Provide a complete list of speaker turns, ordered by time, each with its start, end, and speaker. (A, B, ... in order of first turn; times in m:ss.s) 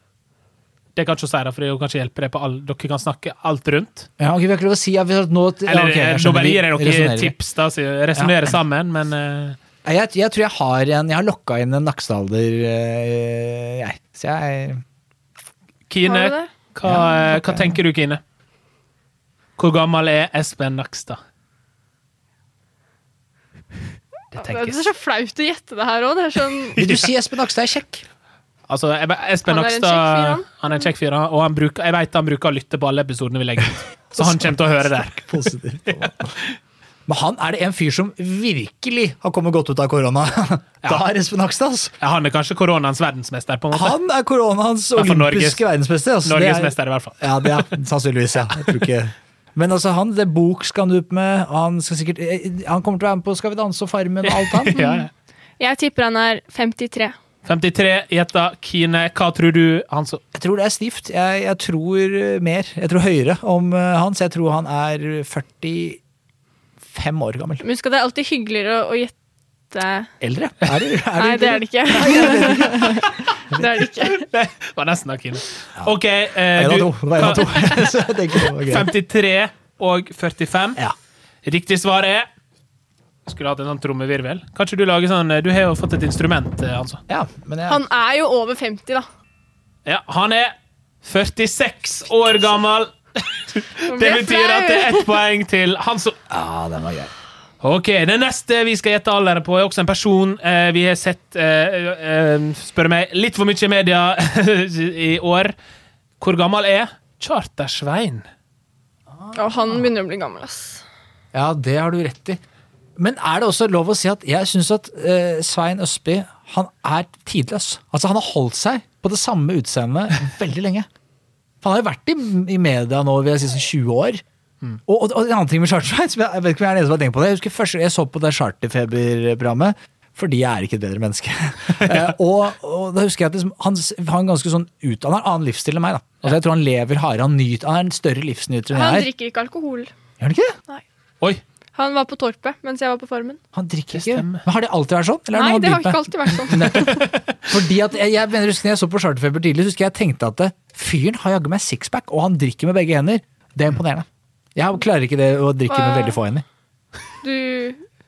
0:01.0-0:04.1 A
0:04.2-0:07.3 B
0:05.7-0:09.6 A
0:08.2-0:08.6 B
0:09.8-0:14.8 B
0:15.9-0:18.2 A
0:16.0-0:16.5 C
0:16.8-0:17.8 B
0:19.6-0:21.2 A
0:24.4-0:24.7 B
0:24.4-0:26.8 C
0:26.8-0:27.1 A
0:26.8-0:28.0 B
0:28.7-0:36.1 A
0:29.5-0:30.5 C
0:34.2-0:36.3 B
0:37.1-0:41.9 B
0:42.0-0:44.0 A
0:43.7-0:54.8 B
0:45.0-0:45.6 A
0:46.2-0:47.7 A
0:54.2-0:55.1 A
0:54.7-0:55.1 C
0:55.6-0:57.2 C
0:57.4-1:00.2 A
1:00.3-1:06.0 B
1:06.9-1:07.6 B
1:07.6-1:09.2 C
1:09.7-1:10.1 C
1:10.2-1:13.8 B
1:11.2-1:14.3 C
1:14.0-1:18.0 A
1:16.5-1:18.9 B
1:18.6-1:20.8 A
1:21.4-1:22.3 A
1:23.3-1:27.0 A
1:27.1-1:27.8 B
1:27.7-1:29.1 C
1:29.9-1:36.2 A
1:33.8-1:35.1 C
1:36.3-1:37.1 B
1:37.6-1:45.5 A
1:46.2-1:48.3 A
1:49.1-1:49.8 B
1:49.3-1:50.8 C
1:51.3-1:52.4 B
1:53.0-2:00.9 B
2:01.6-2:04.2 B
2:04.9-2:19.1 B
2:18.7-2:19.9 C
2:20.2-2:20.6 B
2:21.8-2:23.4 C
2:23.5-2:36.4 B
2:23.9-2:24.4 A
2:25.3-2:27.1 C
2:26.9-2:27.2 A
2:35.7-2:36.2 C
2:37.2-2:37.8 C